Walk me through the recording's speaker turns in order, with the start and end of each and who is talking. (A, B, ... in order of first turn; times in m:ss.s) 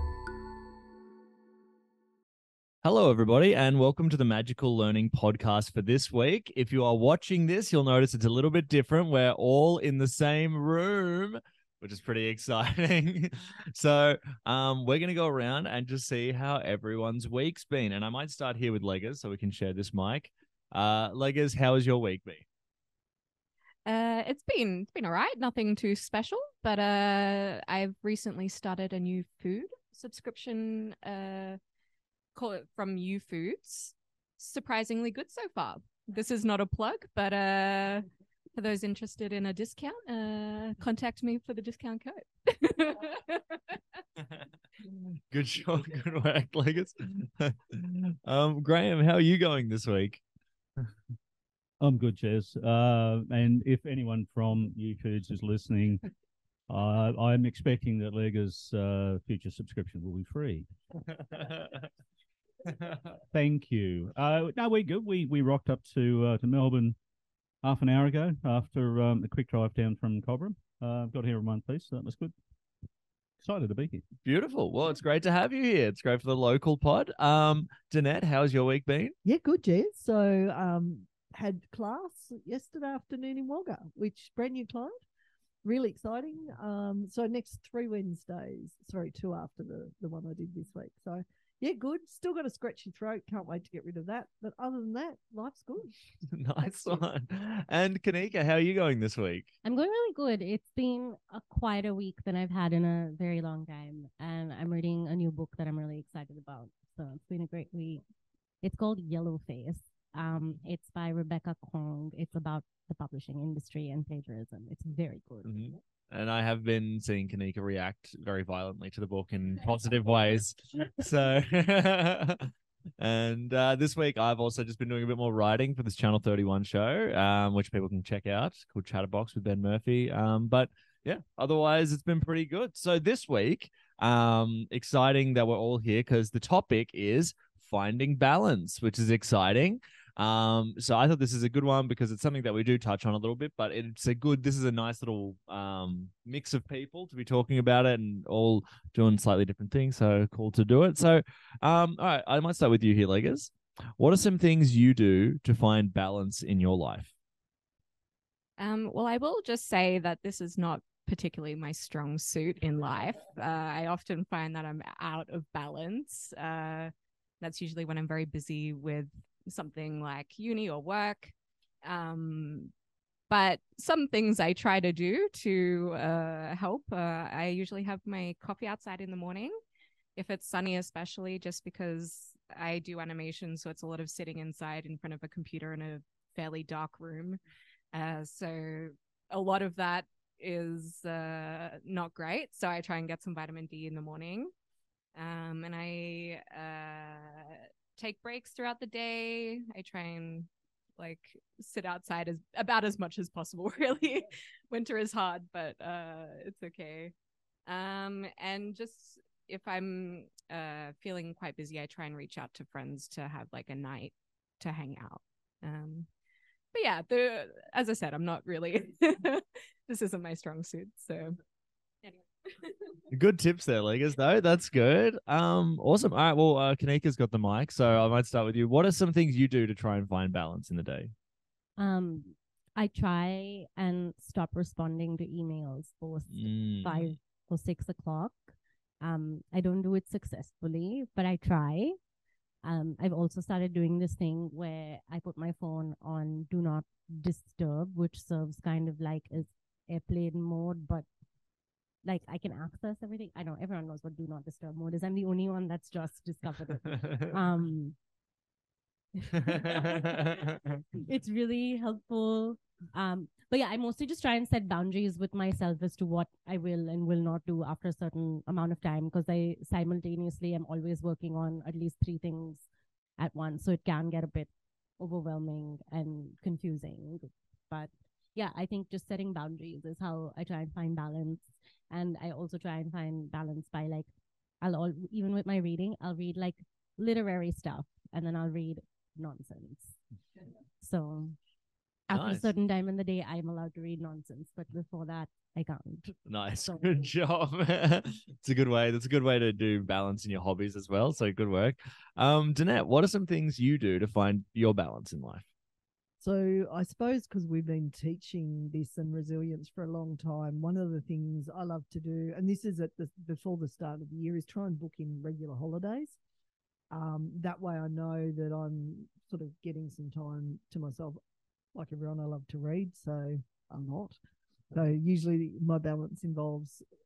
0:02.8-0:22.4 A
0:23.8-0:31.6 B
0:32.3-0:43.8 B
0:45.3-0:50.2 A
0:51.8-0:56.0 C
0:56.7-1:00.6 C
1:01.4-1:01.8 A
1:03.3-1:07.0 C
1:07.6-1:12.3 C
1:13.4-1:14.0 C
1:14.2-1:19.1 A
1:19.2-1:24.9 D
1:25.6-1:35.9 D
1:36.3-1:39.5 A
1:39.6-1:48.0 E
1:48.6-1:55.6 E
1:55.4-2:37.1 A
2:38.6-2:52.7 B
2:53.3-2:59.5 B
3:00.2-3:07.4 B
3:07.9-3:14.5 B
3:15.1-3:27.1 B
3:27.6-3:36.1 B
3:36.7-3:41.4 B
3:42.0-3:42.9 B
3:43.1-3:51.1 A
3:51.8-4:02.0 E
3:56.3-3:57.2 A
4:02.6-4:11.0 E
4:12.0-4:18.0 E
4:19.3-4:32.6 E
4:33.2-4:44.1 E
4:44.6-4:50.0 E
4:50.8-4:51.4 E
4:52.1-4:57.0 E
4:52.1-4:52.5 A
4:56.2-5:05.5 A
5:06.2-5:16.2 D
5:16.9-5:21.2 D
5:21.7-5:24.2 D
5:24.7-5:26.8 D